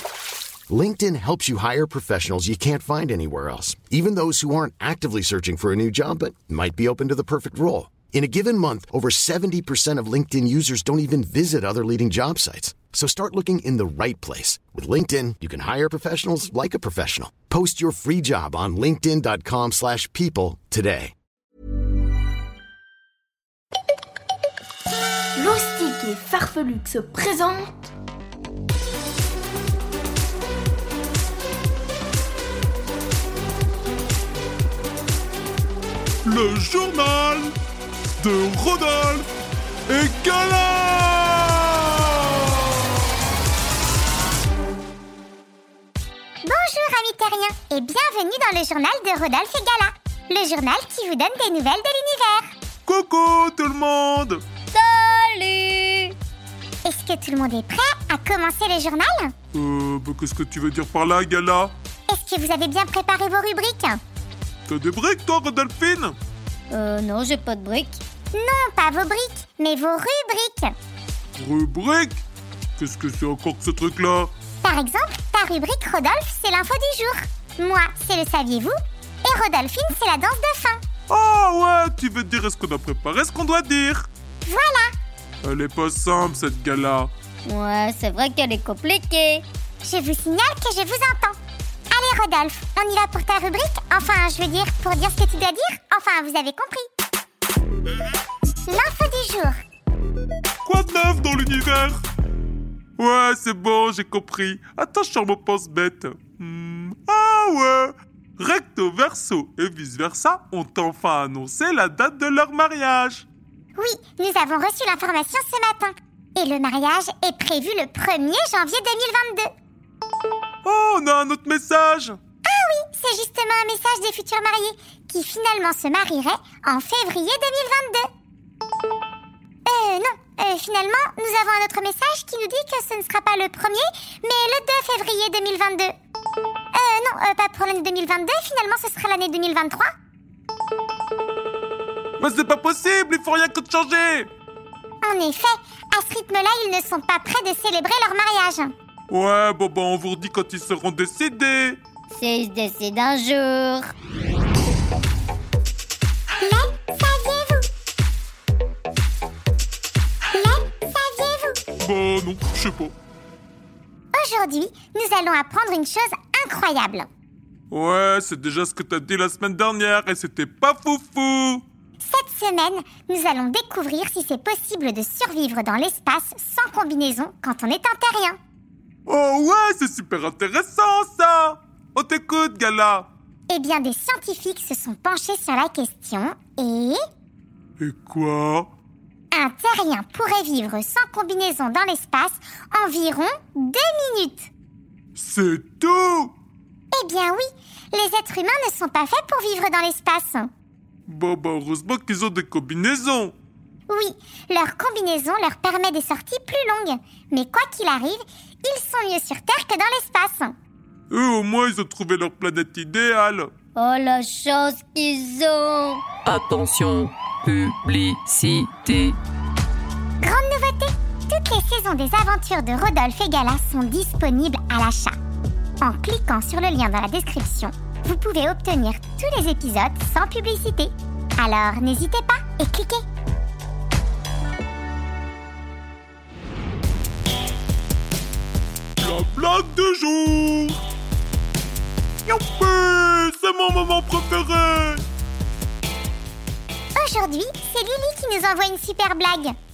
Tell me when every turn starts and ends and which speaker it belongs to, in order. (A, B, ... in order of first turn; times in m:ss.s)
0:00.7-0:21.1 A
0:25.4-0:27.9 B
0:36.2-0:37.6 C
0:38.2-0:39.3 C
0:39.9-0:42.8 C
0:46.4-0:52.5 D
0:52.9-0:54.4 C
0:54.7-0:56.2 E
0:56.8-0:59.3 D
0:59.5-1:01.7 C
1:02.1-1:04.0 D
1:04.7-1:06.2 C
1:06.7-1:08.0 E
1:08.3-1:10.8 D
1:11.4-1:12.2 C
1:12.8-1:14.3 C
1:14.6-1:20.8 D
1:21.1-1:24.1 C
1:24.4-1:24.9 D
1:25.4-1:27.1 C
1:27.4-1:29.4 E
1:29.8-1:31.4 D
1:31.9-1:36.9 D
1:38.7-1:39.6 D
1:40.6-1:42.0 C
1:43.0-1:53.3 C
1:53.8-1:59.5 D
2:00.6-2:02.2 C
2:02.4-2:08.1 D
2:09.6-2:15.9 D
2:16.7-2:19.9 D
2:22.2-2:24.3 C
2:25.0-2:28.7 D
2:29.1-2:31.8 C
2:32.1-2:33.9 E
2:36.4-2:37.7 D
2:40.3-2:41.6 D
2:41.8-2:42.9 C
2:44.1-2:47.1 D
2:47.7-2:51.6 C
2:52.0-2:58.4 D
2:59.1-3:03.1 C
3:03.5-3:07.0 D
3:07.8-3:08.7 C
3:09.3-3:14.5 D
3:15.2-3:16.3 C
3:16.9-3:20.5 D
3:21.1-3:23.4 C
3:23.9-3:30.6 D
3:31.1-3:33.5 C
3:33.8-3:36.0 E
3:36.2-3:39.2 F
3:40.2-3:45.2 D
3:45.8-3:53.0 D
3:59.0-4:00.8 C
4:02.2-4:05.0 C
4:07.0-4:09.6 D